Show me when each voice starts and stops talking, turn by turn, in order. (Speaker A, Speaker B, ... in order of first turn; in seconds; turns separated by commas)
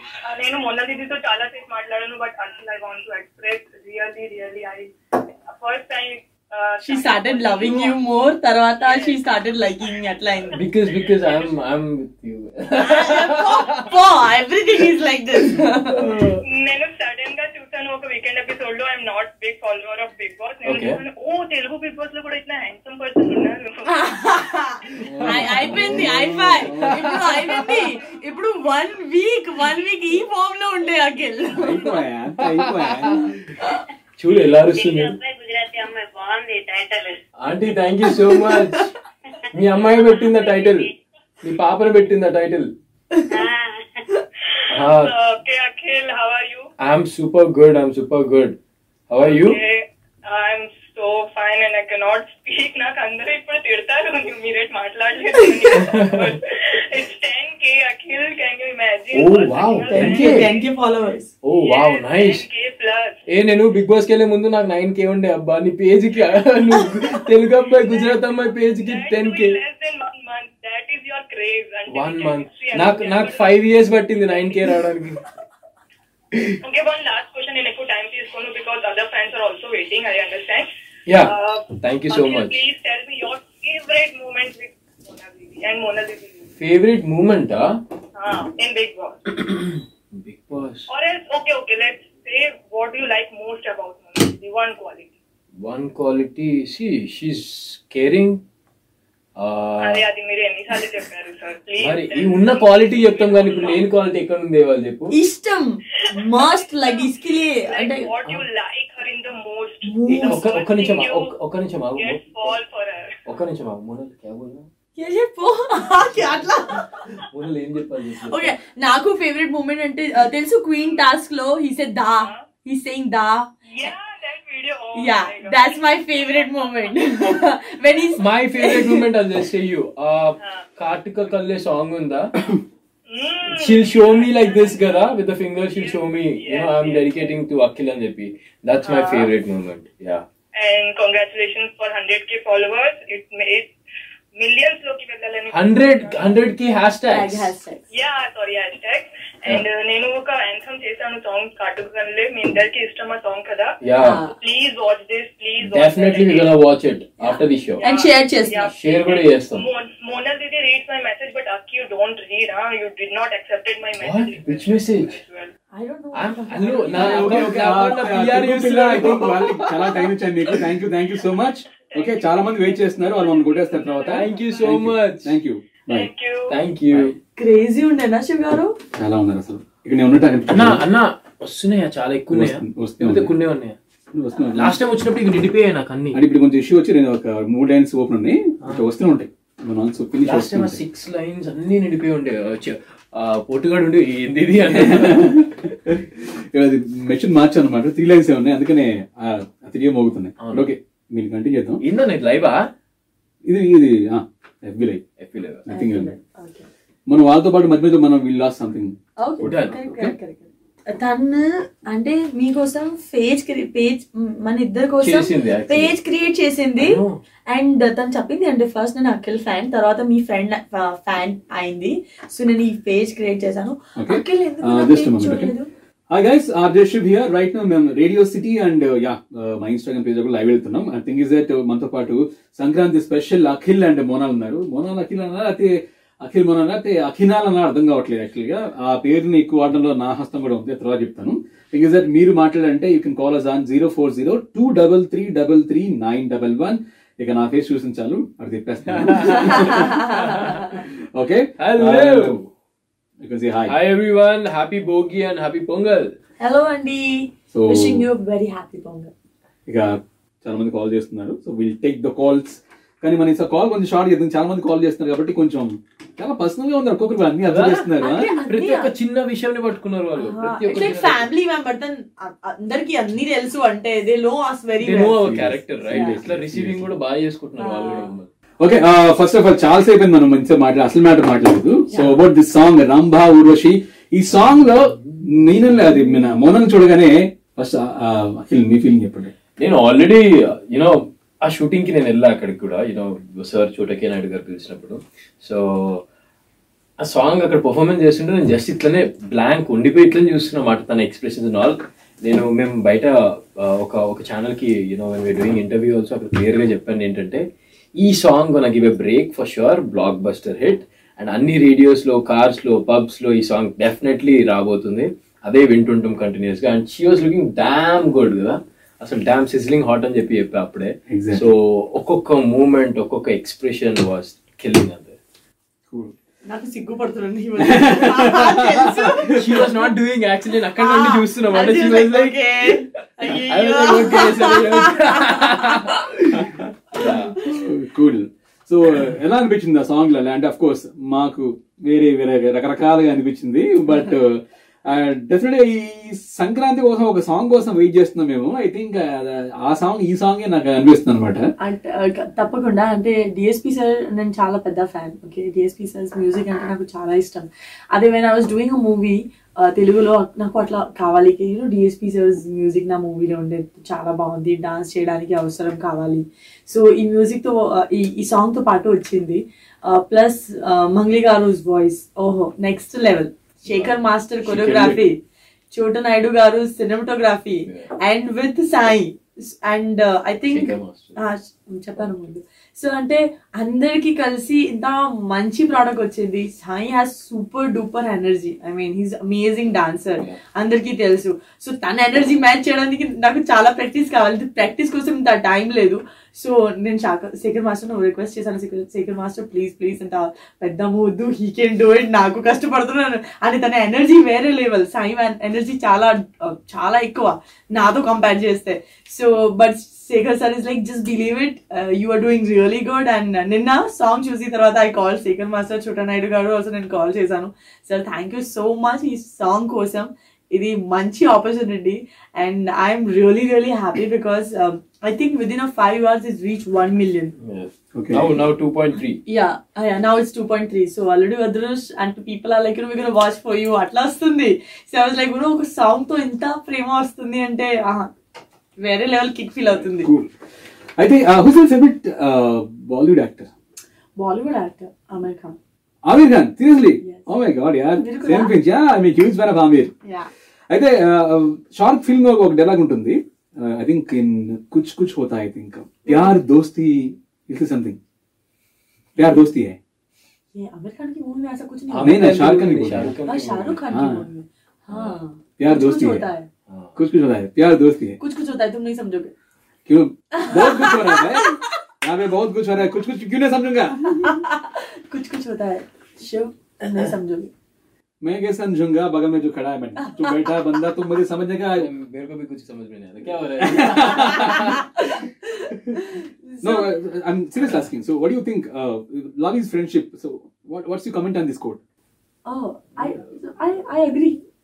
Speaker A: 0.2-8.2, Speaker B: 6.8-10.6, Speaker A: 8.8-9.2, Speaker C: 10.6-13.8, Speaker A: 11.2-11.5, Speaker B: 12.8-16.1, Speaker C: 15.9-16.4, Speaker A: 16.5-24.2, Speaker C: 20.6-21.0, Speaker B: 23.9-31.9, Speaker C: 25.0-27.8, Speaker D: 25.6-27.1, Speaker D: 31.5-33.4, Speaker C: 32.4-35.2, Speaker E: 34.5-37.2, Speaker C: 37.4-38.9, Speaker B: 38.3-38.6, Speaker C: 39.5-42.7, Speaker E: 40.3-40.7, Speaker E: 43.3-43.8, Speaker A: 44.5-46.7, Speaker C: 44.7-45.1, Speaker C: 46.8-48.6, Speaker C: 49.1-49.6, Speaker A: 49.2-60.6, Speaker C: 55.7-56.4, Speaker C: 59.1-60.5, Speaker B: 59.9-61.3, Speaker C: 61.4-62.5, Speaker A: 61.5-63.2, Speaker C: 63.3-69.6, Speaker A: 67.7-74.5, Speaker C: 71.9-75.2, Speaker A: 76.6-80.7, Speaker C: 81.1-82.7, Speaker A: 81.2-86.5, Speaker C: 86.6-87.8, Speaker A: 88.2-89.4, Speaker C: 89.5-90.9, Speaker A: 90.9-95.1, Speaker C: 95.6-98.4, Speaker C: 99.4-100.1, Speaker A: 99.8-103.8, Speaker C: 101.8-105.1, Speaker B: 105.1-108.1, Speaker A: 106.3-111.3, Speaker B: 109.8-110.4, Speaker C: 110.1-112.6, Speaker A: 112.0-113.1, Speaker C: 113.2-114.7, Speaker B: 115.0-117.1, Speaker C: 116.1-118.6, Speaker B: 118.2-123.5, Speaker A: 123.7-126.7, Speaker B: 125.0-129.1, Speaker C: 128.2-132.4, Speaker A: 130.4-130.7, Speaker A: 133.1-135.2, Speaker C: 133.5-140.2, Speaker A: 135.7-137.3, Speaker A: 138.9-139.3, Speaker A: 140.6-143.7, Speaker A: 144.4-146.5, Speaker C: 145.5-147.5, Speaker B: 147.1-147.8, Speaker A: 147.9-153.7, Speaker C: 153.8-154.2, Speaker B: 154.0-154.3, Speaker A: 154.3-156.6, Speaker C: 155.6-157.8, Speaker B: 157.2-158.7, Speaker A: 157.8-165.5, Speaker C: 158.7-159.7, Speaker C: 164.0-165.2, Speaker B: 165.7-167.7, Speaker C: 166.1-170.0, Speaker D: 166.9-176.1, Speaker A: 171.8-174.8, Speaker C: 174.1-175.3, Speaker A: 175.9-176.6, Speaker C: 176.5-177.2, Speaker B: 177.3-178.7, Speaker D: 179.0-180.8, Speaker C: 180.5-183.8, Speaker D: 182.3-183.3, Speaker D: 184.1-184.8, Speaker C: 184.5-186.2, Speaker D: 186.1-190.8, Speaker C: 190.2-195.6, Speaker D: 194.7-201.8, Speaker C: 200.4-200.7, Speaker C: 201.8-202.6, Speaker D: 203.4-205.0, Speaker C: 205.2-205.7, Speaker D: 205.7-206.1, Speaker B: 205.7-206.7, Speaker D: 207.1-209.5, Speaker B: 209.2-225.7, Speaker C: 209.4-210.2, Speaker C: 215.0-215.9, Speaker C: 216.8-217.2, Speaker D: 223.9-225.6, Speaker D: 226.1-249.9, Speaker C: 248.9-250.8, Speaker B: 249.2-250.8, Speaker D: 250.5-252.4, Speaker C: 251.6-252.5, Speaker D: 253.2-253.8, Speaker C: 253.7-256.1, Speaker B: 256.4-259.1, Speaker D: 257.5-258.1, Speaker D: 260.4-268.3, Speaker C: 267.4-271.3, Speaker B: 268.0-268.9, Speaker B: 270.2-276.2, Speaker C: 274.8-278.3, Speaker D: 275.2-276.9, Speaker B: 277.6-278.2, Speaker D: 278.6-289.3, Speaker B: 281.9-282.2, Speaker C: 284.4-285.2, Speaker C: 289.6-296.0, Speaker C: 297.0-307.4, Speaker C: 308.0-325.2, Speaker D: 321.1-321.5, Speaker B: 326.4-329.9, Speaker D: 327.6-329.5, Speaker C: 329.3-337.4, Speaker B: 330.7-335.9, Speaker D: 337.4-351.4, Speaker B: 351.6-375.2, Speaker C: 373.6-375.1, Speaker B: 375.7-427.3, Speaker C: 377.6-377.9, Speaker C: 380.5-381.2, Speaker C: 427.4-429.2, Speaker D: 427.9-428.3, Speaker B: 429.3-438.1, Speaker B: 438.8-440.1, Speaker D: 439.8-440.3, Speaker D: 441.0-443.5, Speaker B: 444.2-445.6, Speaker D: 446.1-449.9, Speaker B: 447.0-447.3, Speaker B: 447.9-448.6, Speaker D: 450.7-458.0, Speaker B: 456.1-456.4, Speaker B: 459.2-459.4, Speaker D: 459.2-459.8, Speaker B: 460.6-462.4, Speaker C: 461.9-463.8, Speaker D: 462.0-463.1, Speaker B: 463.2-466.5, Speaker D: 463.9-464.2, Speaker C: 464.9-465.2, Speaker D: 465.6-466.2, Speaker C: 466.7-467.0, Speaker D: 466.9-468.2, Speaker B: 468.2-469.3, Speaker D: 469.9-474.4, Speaker B: 470.3-471.6, Speaker B: 474.1-477.5, Speaker D: 478.2-481.9, Speaker B: 480.0-480.5, Speaker C: 481.8-484.9, Speaker D: 483.6-484.8, Speaker B: 484.2-486.9, Speaker D: 486.6-491.8, Speaker B: 492.4-494.4